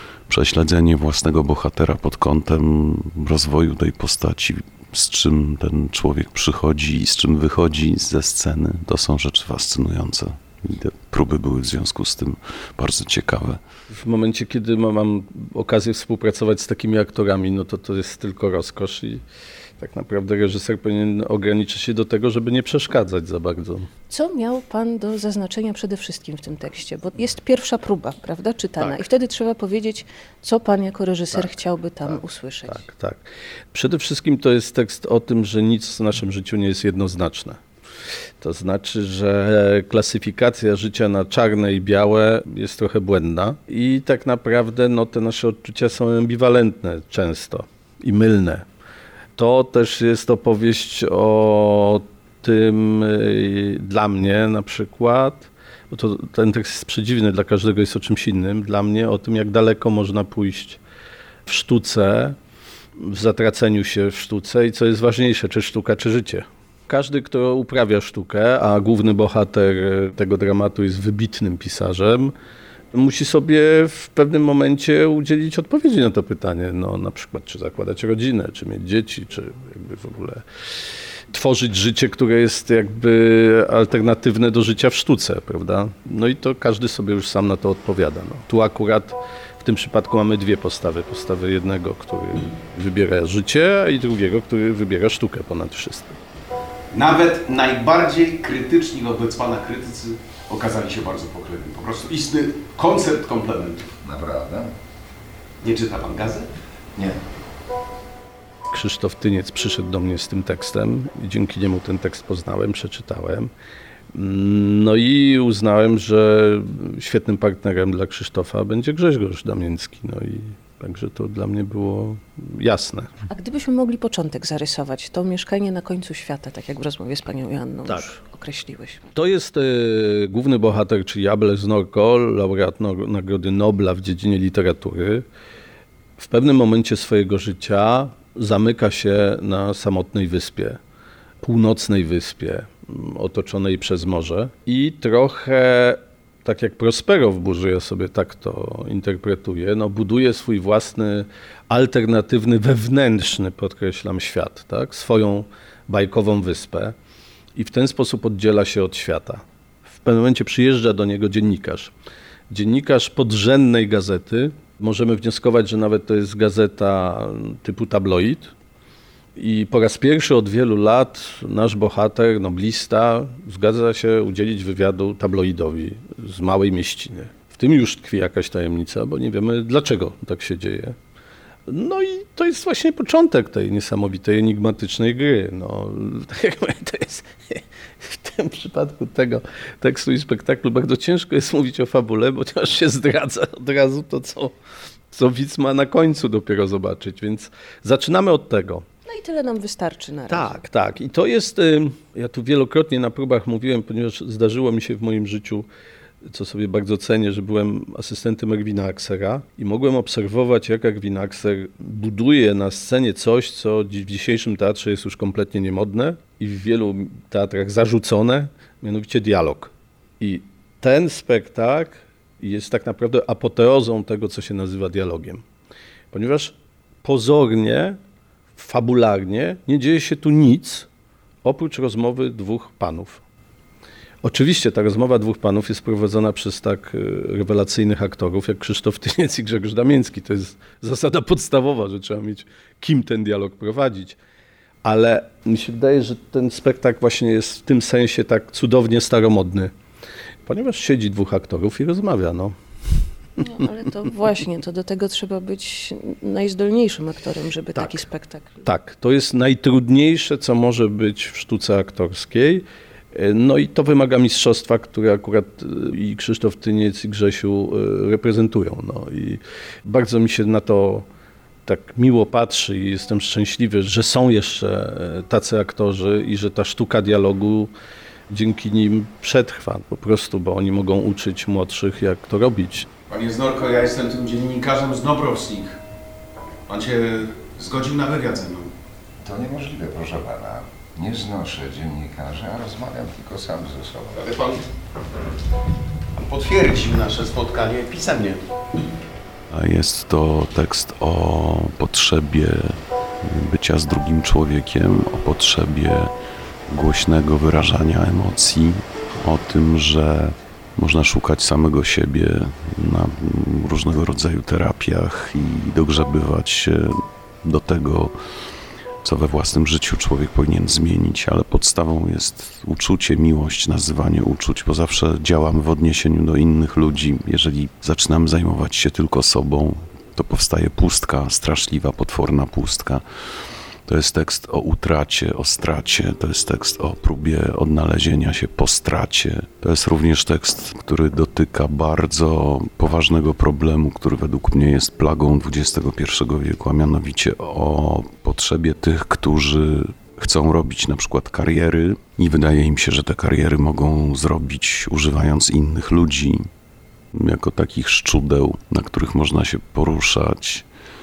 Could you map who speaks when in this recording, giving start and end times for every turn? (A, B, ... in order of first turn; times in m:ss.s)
0:00.3-0:13.6 A
0:13.9-0:19.2 B
0:19.8-0:23.9 B
0:24.1-0:32.8 C
0:28.8-0:29.1 B
0:31.3-0:37.6 B
0:38.4-0:48.7 B
0:49.4-1:00.8 B
1:01.4-1:02.4 B
1:03.0-1:12.3 B
1:12.9-1:20.4 B
1:21.3-1:36.2 B
1:36.9-1:43.9 D
1:37.0-1:40.0 A
1:40.5-1:42.7 A
1:44.0-1:44.7 E
1:45.6-1:46.5 D
1:48.7-1:53.5 B
1:54.1-2:03.1 B
2:03.3-2:09.0 C
2:07.8-2:08.1 B
2:09.1-2:15.2 B
2:16.2-2:20.8 B
2:21.4-2:37.0 B
2:37.5-2:41.9 B
2:42.5-2:48.5 B
2:49.4-3:01.0 B
3:01.7-3:14.5 B
3:15.1-3:18.8 B
3:19.0-3:20.6 C
3:20.3-3:25.7 B
3:26.2-3:45.4 B
3:46.1-3:48.0 B
3:48.6-3:50.9 B
3:51.4-3:53.2 B
3:54.2-4:04.2 B
4:04.8-4:09.7 B
4:10.4-4:12.6 B
4:13.4-4:18.6 C
4:17.7-4:18.1 B
4:18.6-4:31.1 B
4:31.6-4:37.7 B
4:38.3-4:42.9 B
4:43.1-4:45.8 D
4:44.2-4:45.5 A
4:46.7-4:48.7 D
4:47.7-4:48.2 A
4:49.2-4:54.3 E
4:56.2-4:58.4 D
4:59.5-5:06.1 A
5:06.7-5:18.1 A
5:19.0-5:33.0 A
5:33.9-5:56.5 A
5:57.1-6:00.6 A